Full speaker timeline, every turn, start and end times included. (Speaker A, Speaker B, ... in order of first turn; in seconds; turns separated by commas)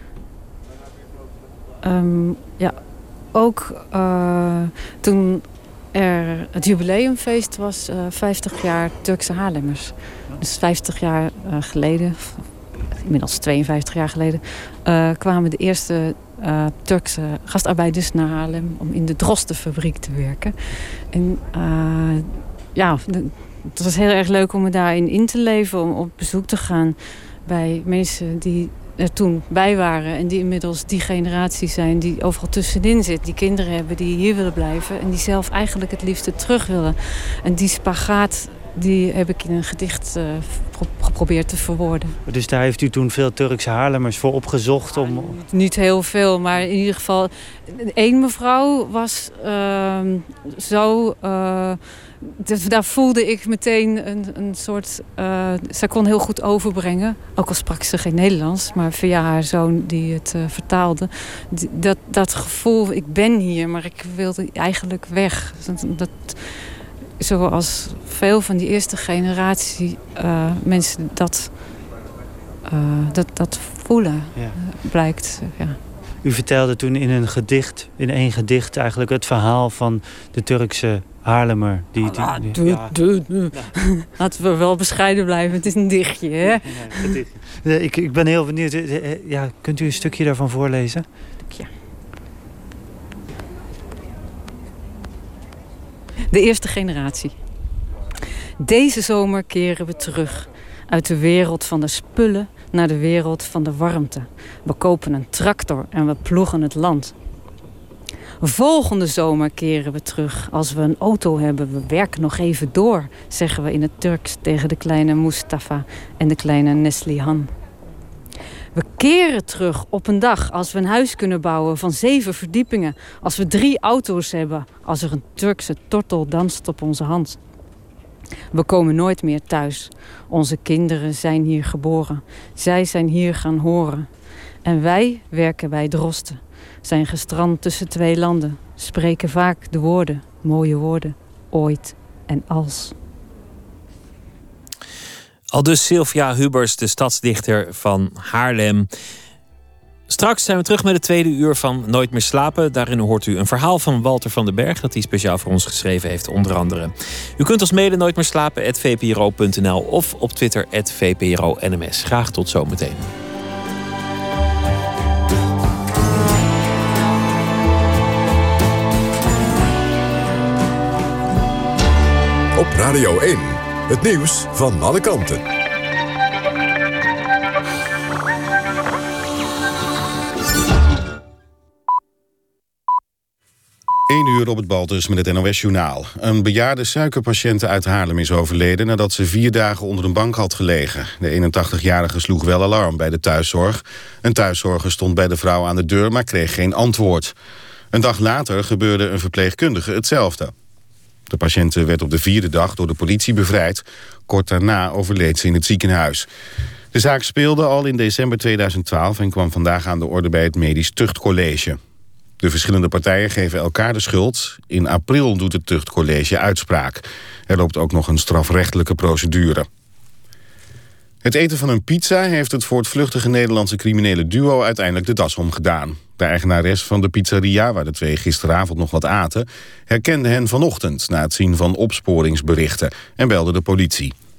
Speaker A: 1.8-42.1, Speaker B: 42.2-45.4, Speaker A: 44.9-71.7, Speaker A: 72.7-75.8, Speaker B: 76.2-83.7, Speaker A: 82.0-87.2, Speaker B: 86.5-91.0, Speaker A: 96.3-97.3, Speaker A: 98.6-107.1, Speaker A: 108.4-117.5, Speaker A: 118.7-127.4, Speaker A: 128.5-134.1, Speaker A: 134.6-142.9, Speaker C: 145.5-148.9, Speaker C: 150.1-163.1, Speaker D: 172.6-175.4, Speaker E: 184.1-197.3, Speaker E: 197.9-200.5, Speaker E: 201.3-206.3, Speaker E: 206.9-211.8, Speaker E: 212.4-219.7, Speaker E: 221.2-234.1